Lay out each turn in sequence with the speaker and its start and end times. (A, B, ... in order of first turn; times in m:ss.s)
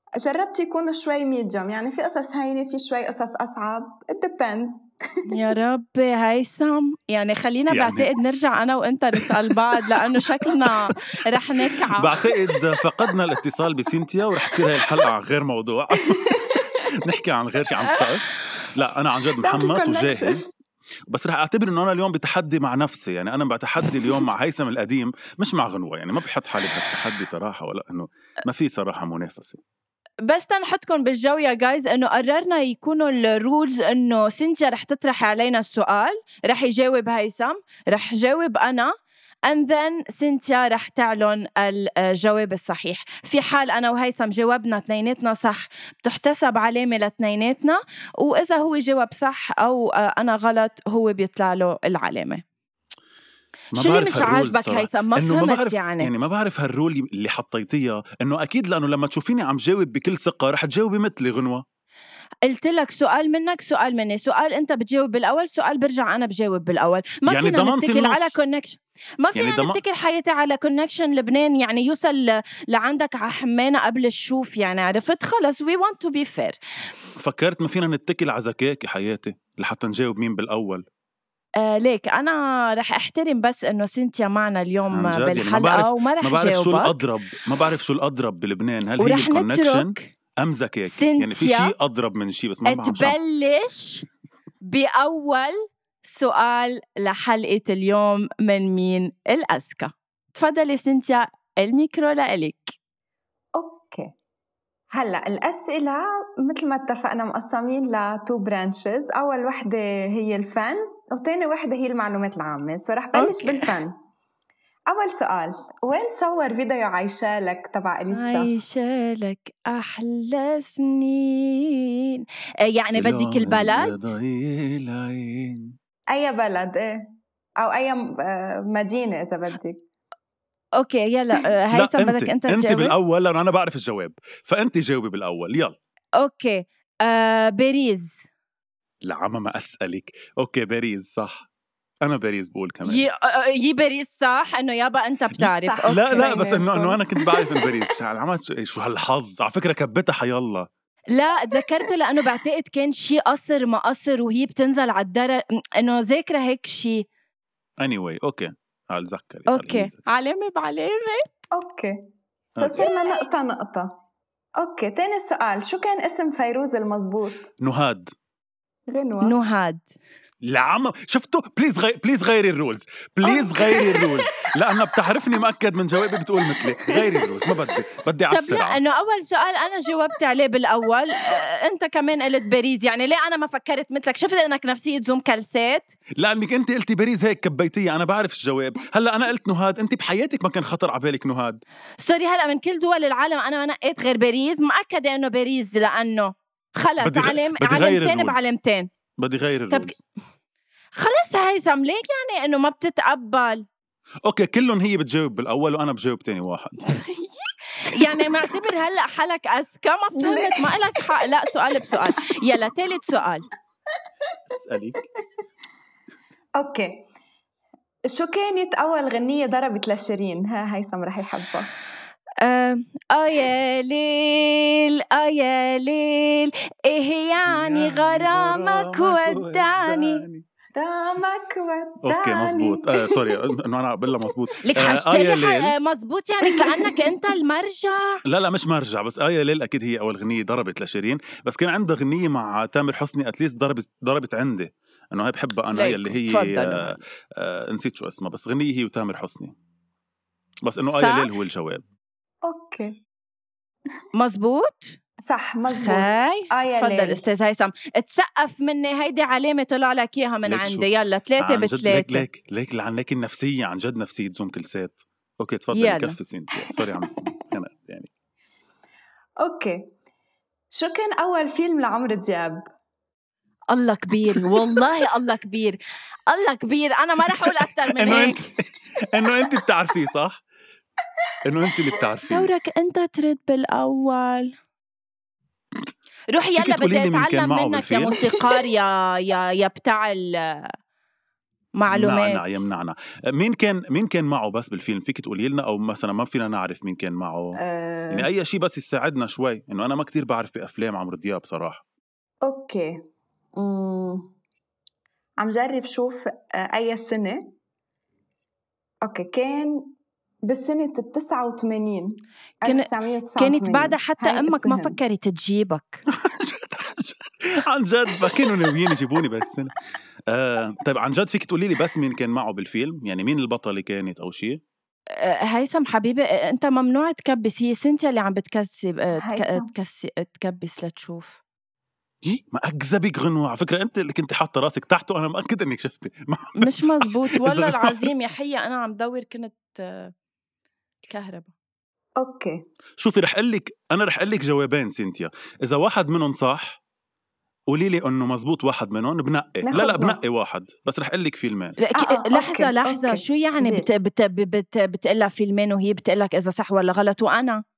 0:00.2-0:04.8 A
0:05.3-0:12.1 B
0:07.7-0:08.1 C
0:12.0-0:20.4 C
0:12.2-0:13.2 A
0:14.6-0:15.0 A
0:16.0-0:16.8 A
0:19.4-0:20.4 A
0:21.1-0:29.6 C
0:30.2-0:38.9 B
0:39.5-0:52.4 B
0:53.7-1:01.6 C
0:53.8-0:56.1 B
1:02.5-1:16.6 B
1:07.3-1:08.4 C
1:09.4-1:09.8 C
1:17.2-1:20.8 C
1:21.6-1:27.0 B
1:24.9-1:33.2 C
1:29.0-1:30.1 B
1:30.9-1:31.7 B
1:32.7-1:34.1 B
1:34.6-1:42.7 B
1:43.6-1:44.1 A
1:44.9-1:53.9 A
1:53.1-1:53.8 B
1:54.9-1:58.5 A
1:58.1-2:04.2 B
2:02.9-2:05.8 C
2:06.1-2:09.8 A
2:10.8-2:13.0 B
2:11.7-2:15.8 C
2:16.2-2:18.2 B
2:19.0-2:21.5 C
2:22.0-2:23.0 C
2:22.8-2:26.3 B
2:25.4-2:27.8 A
2:25.9-2:30.7 C
2:31.1-2:37.1 B
2:37.8-2:40.0 C
2:39.5-2:41.2 B
2:41.5-2:42.0 A
2:42.5-2:43.9 A
2:42.6-2:42.9 C
2:44.6-2:47.5 A
2:47.6-2:48.1 C
2:48.9-2:49.3 A
2:49.2-2:49.9 B
2:50.4-2:58.8 C
2:53.2-2:54.2 A
2:56.6-2:57.3 A
2:58.3-3:06.0 B
3:06.2-3:11.6 C
3:12.0-3:18.9 B
3:17.0-3:18.4 C
3:19.2-3:20.0 C
3:21.0-3:23.6 B
3:24.2-3:26.8 C
3:26.9-3:33.5 B
3:30.2-3:32.0 A
3:34.5-3:35.1 C
3:36.6-3:37.0 A
3:38.1-3:41.7 A
3:42.4-3:50.2 B
3:47.5-3:50.4 C
3:50.8-3:53.4 A
3:52.0-3:55.7 C
3:54.6-3:58.2 B
3:56.5-3:57.1 A
3:58.2-4:09.5 C
4:05.8-4:06.9 B
4:10.6-4:11.8 C
4:10.9-4:11.3 B
4:12.4-4:13.0 A
4:14.1-4:15.0 B
4:15.2-4:17.2 A
4:15.7-4:22.3 B
4:20.5-4:20.9 C
4:21.4-4:28.1 C
4:25.7-4:26.2 B
4:26.7-4:27.3 A
4:29.4-4:29.9 A
4:30.7-4:32.6 A
4:33.7-4:38.4 B
4:34.4-4:34.9 A
4:37.9-4:40.4 C
4:41.4-4:42.5 C
4:42.3-4:44.5 B
4:46.3-4:50.7 B
4:46.6-4:48.2 C
4:51.8-4:52.7 B
4:51.9-4:57.6 C
4:57.6-4:58.3 A
4:58.1-5:01.8 C
5:02.4-5:03.0 A
5:03.6-5:04.3 A
5:05.4-5:07.5 A
5:09.0-5:09.9 A
5:10.5-5:15.0 A
5:12.6-5:16.0 B
5:16.1-5:19.7 C
5:20.3-5:24.6 C
5:25.2-5:31.4 B
5:29.2-5:29.7 A
5:32.2-5:38.0 C
5:36.6-5:40.1 B
5:41.0-5:41.5 B
5:42.2-5:42.6 A
5:43.0-5:46.8 C
5:47.7-5:51.8 C
5:49.6-5:50.6 A
5:51.8-5:57.6 B
5:52.0-5:53.9 A